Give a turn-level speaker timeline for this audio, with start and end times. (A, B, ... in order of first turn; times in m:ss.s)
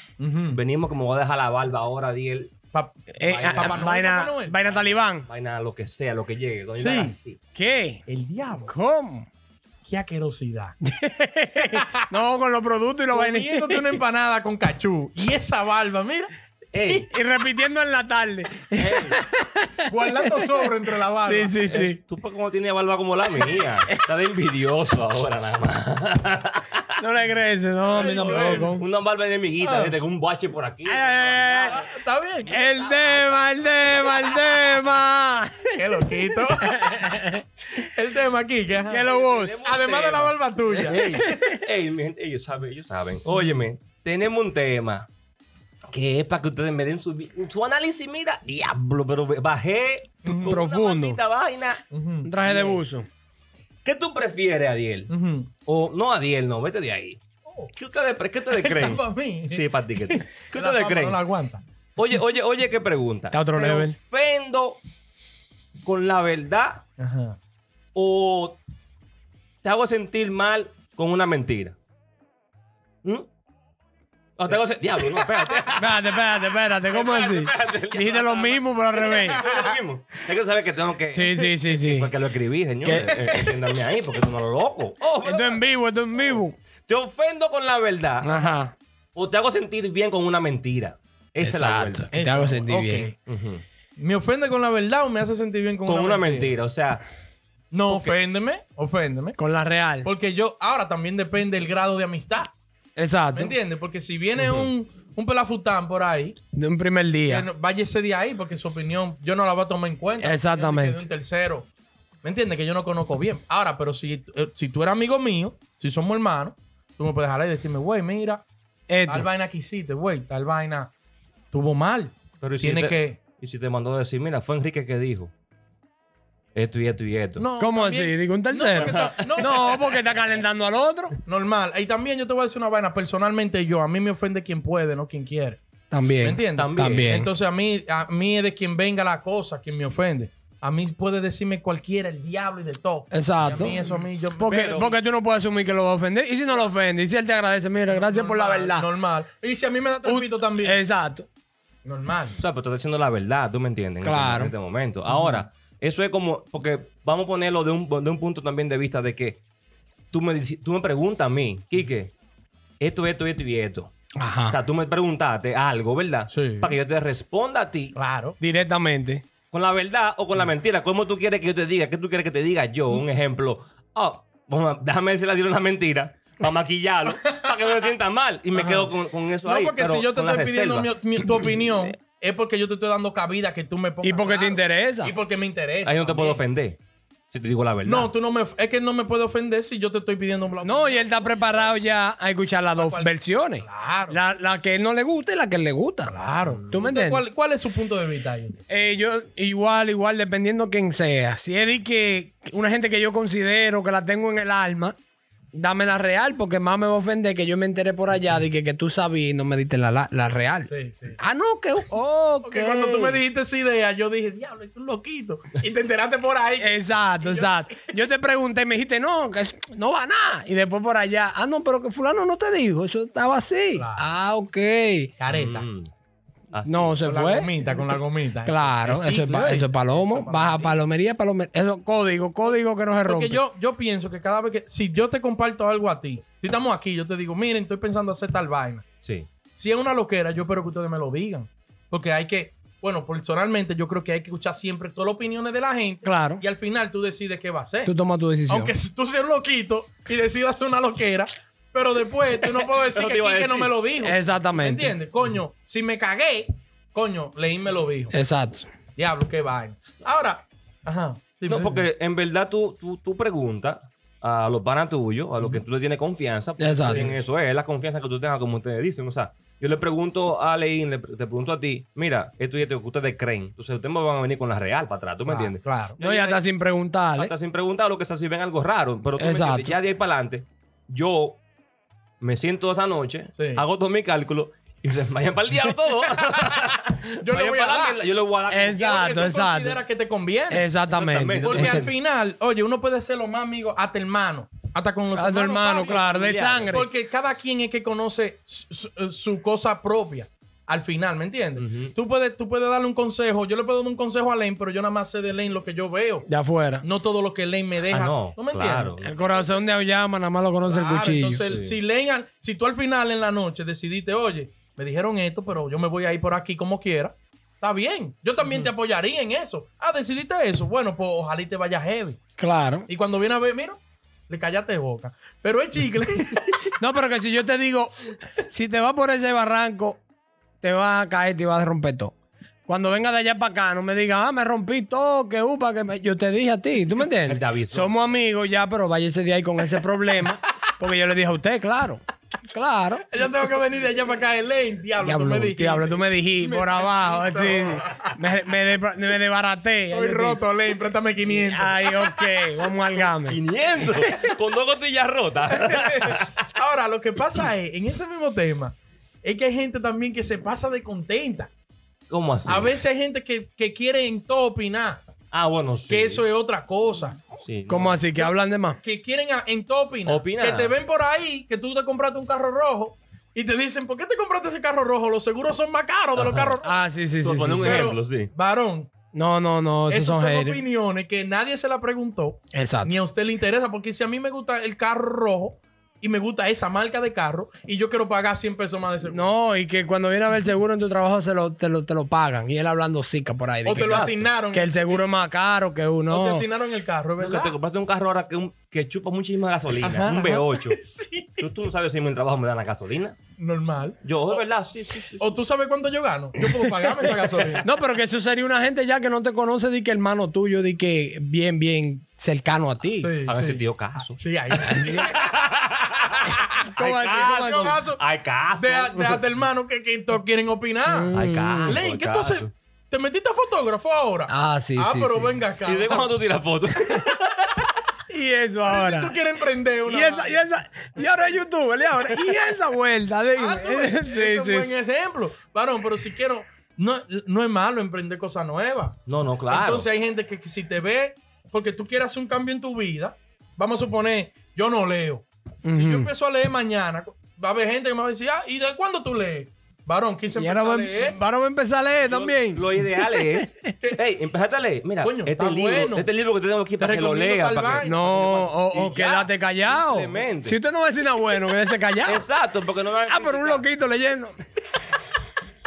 0:00.2-0:00.6 A
0:00.5-0:02.5 B
0:02.7-0:04.7 A
0:03.2-0:05.3 C
0:03.2-0:03.9 B
0:04.7-0:07.4 B
0:06.8-0:07.2 A
0:07.6-0:08.0 C
0:08.1-0:08.7 A
0:08.7-0:09.3 C
0:09.8-0:10.8 A
0:10.8-0:14.0 C
0:11.7-0:12.1 A
0:13.1-0:16.3 A
0:16.7-0:17.1 B
0:16.8-0:17.1 A
0:17.1-0:20.6 C
0:18.8-0:19.2 B
0:19.9-0:21.9 A
0:21.2-0:22.0 C
0:21.7-0:26.9 B
0:27.0-0:28.8 C
0:27.8-0:28.8 A
0:28.2-0:31.9 B
0:29.6-0:30.0 A
0:30.9-0:31.8 C
0:31.7-0:33.0 A
0:32.5-0:37.4 C
0:32.8-0:33.3 B
0:35.8-0:39.1 A
0:38.9-0:39.6 C
0:38.9-0:45.1 B
0:39.6-0:41.3 A
0:40.9-0:41.6 C
0:43.3-0:43.6 A
0:45.9-0:51.8 B
0:50.2-0:50.6 A
0:50.4-0:51.2 C
0:51.9-0:52.4 A
0:52.2-0:53.1 C
0:52.4-0:52.8 B
0:53.8-0:55.1 B
0:55.1-0:55.5 A
0:55.7-0:57.2 B
0:57.5-0:57.7 A
0:57.8-1:01.2 B
0:58.5-1:01.6 A
1:02.0-1:04.8 B
1:03.3-1:04.0 C
1:05.8-1:06.8 B
1:07.0-1:07.4 A
1:08.0-1:08.6 B
1:09.6-1:11.8 B
1:14.4-1:16.2 B
1:15.8-1:19.4 C
1:16.9-1:28.3 B
1:19.1-1:19.8 A
1:21.1-1:22.1 C
1:22.8-1:23.6 C
1:25.2-1:26.6 C
1:28.2-1:28.7 C
1:29.2-1:32.1 B
1:31.4-1:33.1 C
1:32.1-1:33.2 A
1:33.3-1:33.6 B
1:34.0-1:36.6 A
1:35.9-1:37.0 B
1:37.7-1:39.4 A
1:37.9-1:38.2 B
1:39.4-1:40.1 C
1:40.0-1:42.5 A
1:43.0-1:43.5 C
1:43.3-1:46.4 A
1:44.4-1:44.7 B
1:46.5-1:47.5 C
1:47.3-1:51.7 A
1:50.2-1:51.0 C
1:52.2-1:58.5 A
1:58.9-1:59.3 C
1:59.1-2:00.9 A
2:01.5-2:03.2 A
2:02.4-2:05.3 B
2:06.6-2:07.4 B
2:07.4-2:09.8 A
2:07.6-2:11.2 C
2:08.8-2:09.7 B
2:11.2-2:15.6 A
2:15.9-2:17.3 C
2:16.2-2:25.0 A
2:16.6-2:17.2 B
2:23.1-2:28.9 C
2:24.4-2:24.9 B
2:27.9-2:30.8 A
2:30.0-2:31.3 C
2:31.8-2:32.4 A
2:32.4-2:39.4 B
2:34.0-2:34.5 C
2:35.1-2:35.4 A
2:40.1-2:42.1 B
2:42.8-2:43.9 B
2:44.2-2:44.6 C
2:44.5-2:47.9 B
2:46.3-2:46.8 A
2:48.0-2:48.4 A
2:48.4-2:49.2 C
2:49.5-3:01.9 B
2:58.5-2:58.9 A
2:59.4-3:06.4 A
3:04.0-3:05.2 C
3:05.8-3:06.8 B
3:07.3-3:08.1 B
3:07.8-3:11.3 A
3:10.6-3:16.2 C
3:12.8-3:14.2 A
3:16.1-3:18.6 A
3:16.4-3:17.0 B
3:16.7-3:17.2 C
3:18.7-3:25.0 C
3:25.5-3:33.2 C
3:30.7-3:31.2 A
3:32.4-3:38.0 A
3:36.6-3:45.1 C
3:43.8-3:44.0 A
3:45.2-3:45.6 A
3:45.3-3:45.9 B
3:46.5-3:47.0 B
3:46.7-3:53.4 C
3:47.0-3:50.8 A
3:52.4-3:58.8 A
3:59.0-3:59.3 B
3:59.6-4:07.9 A
4:06.0-4:06.4 C
4:07.8-4:08.7 C
4:08.5-4:18.1 A
4:12.6-4:13.7 B
4:14.0-4:15.0 C
4:18.1-4:18.7 C
4:19.0-4:21.9 A
4:21.5-4:36.4 B
4:26.6-4:27.1 C
4:26.8-4:27.2 A
4:35.3-4:36.0 A
4:36.0-4:37.3 C
4:37.2-4:41.4 B
4:39.2-4:39.8 C
4:42.2-4:48.9 B
4:43.4-4:43.6 A
4:46.3-4:46.6 A
4:47.2-4:48.0 A
4:48.5-4:49.8 C
4:48.7-4:50.7 A
4:50.5-4:51.8 C
4:50.9-4:51.9 B
4:51.4-4:56.1 A
4:55.1-4:56.9 C
4:55.8-4:56.8 B
4:56.7-5:06.3 A
5:01.6-5:01.9 B
5:06.3-5:06.8 C
5:06.8-5:09.5 A
5:07.9-5:09.2 B
5:09.0-5:11.4 C
5:10.7-5:22.2 A
5:11.4-5:11.8 B
5:22.4-5:22.9 C
5:22.9-5:26.7 A
5:26.8-5:30.0 C
5:30.6-5:32.2 C
5:32.7-5:43.1 C
5:37.2-5:37.9 B
5:43.1-5:48.1 A
5:45.0-5:50.4 C
5:49.9-5:52.7 A
5:51.3-5:54.3 C
5:53.2-5:56.5 B
5:55.5-6:01.5 A
6:02.1-6:02.8 B
6:02.5-6:05.0 A
6:05.3-6:06.2 B
6:05.9-6:07.2 A
6:07.4-6:08.0 B
6:07.7-6:08.8 C
6:08.2-6:16.8 A
6:10.1-6:10.7 B
6:16.2-6:16.5 B
6:16.6-6:17.9 C
6:17.2-6:18.3 B
6:17.6-6:18.9 A
6:19.1-6:20.6 C
6:19.9-6:29.3 A
6:22.5-6:22.9 C
6:29.1-6:36.5 C
6:33.6-6:35.0 A
6:33.7-6:34.2 B
6:36.1-6:37.6 A
6:37.2-6:40.8 B
6:39.8-6:41.5 A
6:41.4-6:43.2 B
6:43.4-6:44.4 A
6:44.0-6:45.4 B
6:45.2-6:47.6 A
6:46.4-6:53.1 C
6:53.0-6:55.3 A
6:53.3-6:56.4 B
6:54.7-6:55.1 C
6:56.3-6:58.0 A
6:56.7-6:57.8 C
6:56.9-6:59.2 B
6:58.6-7:06.1 A
7:00.9-7:01.8 C
7:01.1-7:02.5 B
7:04.3-7:05.4 C
7:05.7-7:07.6 B
7:08.1-7:09.2 C
7:08.6-7:10.4 A
7:09.8-7:14.7 C
7:13.3-7:19.0 A
7:19.1-7:19.9 B
7:19.5-7:31.2 A
7:25.6-7:26.1 C
7:30.4-7:33.7 C
7:32.0-7:40.6 B
7:35.0-7:36.1 A
7:36.8-7:38.1 A
7:37.8-7:42.2 C
7:42.1-7:43.6 B
7:43.1-7:44.4 C